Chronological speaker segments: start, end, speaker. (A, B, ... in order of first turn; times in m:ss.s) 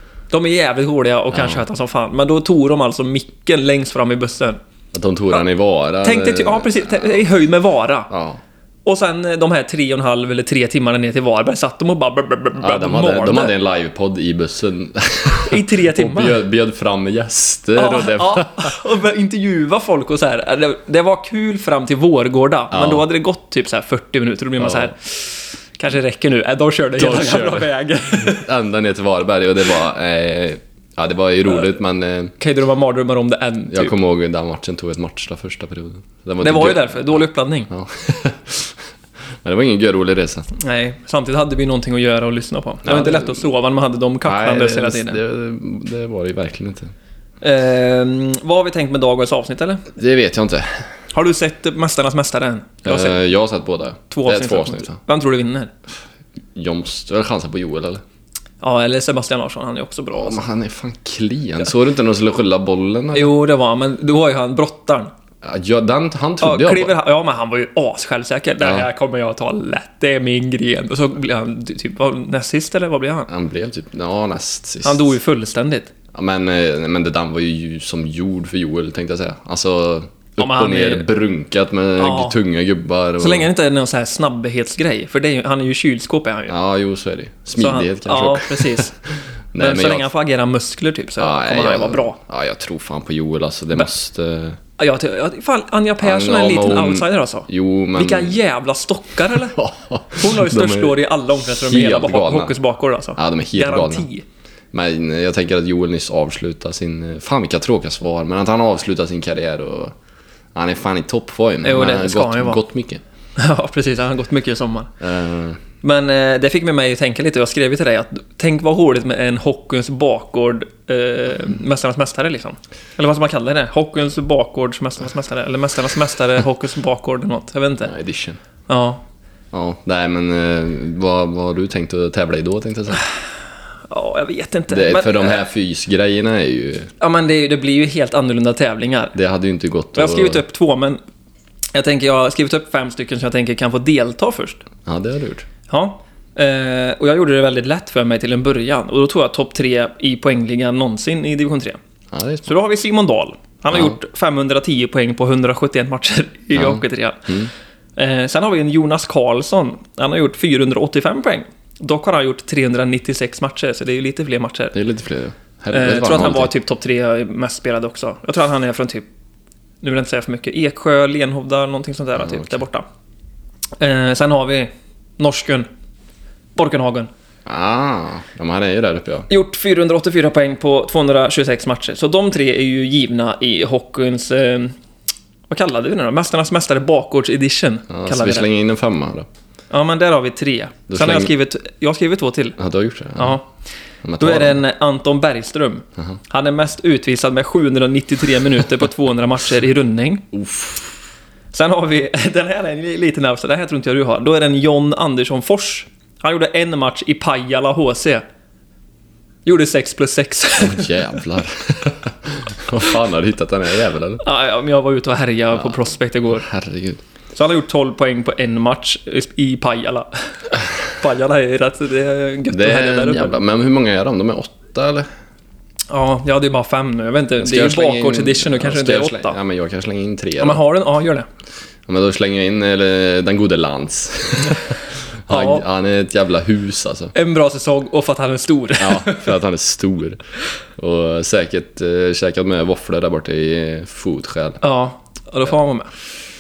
0:00.3-0:04.6 A
0:01.3-0:01.6 B
0:04.9-0:07.2 B
0:06.0-0:08.1 A
0:08.1-0:08.4 B
0:08.8-0:13.5 A
0:12.6-0:18.8 B
0:15.4-0:16.4 A
0:17.8-0:28.5 A
0:22.7-0:23.1 B
0:24.6-0:24.9 B
0:27.0-0:32.3 B
0:32.4-0:33.9 A
0:33.7-0:38.8 B
0:36.4-0:37.7 A
0:39.4-0:40.5 B
0:40.5-0:45.2 A
0:42.8-0:43.5 B
0:44.2-0:46.9 B
0:47.4-0:49.9 A
0:49.9-0:50.8 B
0:51.1-0:53.2 A
0:52.8-0:55.0 B
0:54.1-0:55.7 A
0:56.5-0:58.0 B
0:58.6-1:00.4 A
1:00.1-1:03.3 B
1:03.1-1:05.1 A
1:05.4-1:06.9 B
1:06.4-1:13.3 A
1:08.6-1:08.9 B
1:13.3-1:15.1 B
1:14.8-1:15.9 A
1:16.1-1:23.5 B
1:20.4-1:21.1 A
1:22.0-1:22.4 A
1:23.2-1:26.5 A
1:26.5-1:28.9 B
1:27.6-1:28.9 A
1:29.5-1:30.1 B
1:29.6-1:32.2 A
1:31.2-1:34.6 B
1:34.8-1:39.6 A
1:36.0-1:38.3 B
1:39.3-1:42.5 B
1:40.2-1:44.2 A
1:43.2-1:44.1 B
1:44.7-1:49.9 B
1:50.5-1:53.0 B
1:51.6-1:52.6 A
1:53.4-1:54.9 A
1:55.0-1:55.6 B
1:55.8-2:07.9 A
2:07.9-2:08.4 B
2:08.7-2:09.0 A
2:09.5-2:13.0 B
2:13.9-2:15.4 A
2:14.7-2:16.9 B
2:17.0-2:19.1 A
2:19.1-2:20.4 B
2:19.9-2:21.0 A
2:21.7-2:24.6 A
2:24.8-2:25.5 B
2:25.7-2:31.8 A
2:32.1-2:32.5 B
2:32.4-2:37.3 A
2:36.5-2:37.5 B
2:38.0-2:44.8 A
2:44.7-2:46.5 B
2:45.7-2:49.1 A
2:49.8-2:52.8 A
2:52.2-2:52.6 B
2:53.8-2:55.7 A
2:56.6-2:57.1 A
2:57.4-2:59.3 B
2:59.3-3:04.8 A
3:05.5-3:08.5 A
3:07.9-3:09.3 B
3:09.7-3:12.6 A
3:10.9-3:11.3 B
3:12.6-3:13.4 B
3:13.2-3:13.5 A
3:14.0-3:14.6 B
3:14.2-3:20.3 A
3:20.3-3:21.0 B
3:21.5-3:28.2 A
3:29.4-3:31.2 A
3:30.6-3:34.2 B
3:34.2-3:36.5 A
3:36.4-3:37.0 B
3:37.4-3:43.4 A
3:42.5-3:45.1 B
3:45.9-3:49.4 A
3:47.4-3:50.6 B
3:50.4-3:51.2 A
3:51.9-3:57.1 B
3:55.3-3:55.6 A
3:57.1-3:59.3 A
3:58.8-4:00.2 B
4:00.8-4:04.6 B
4:04.6-4:05.9 A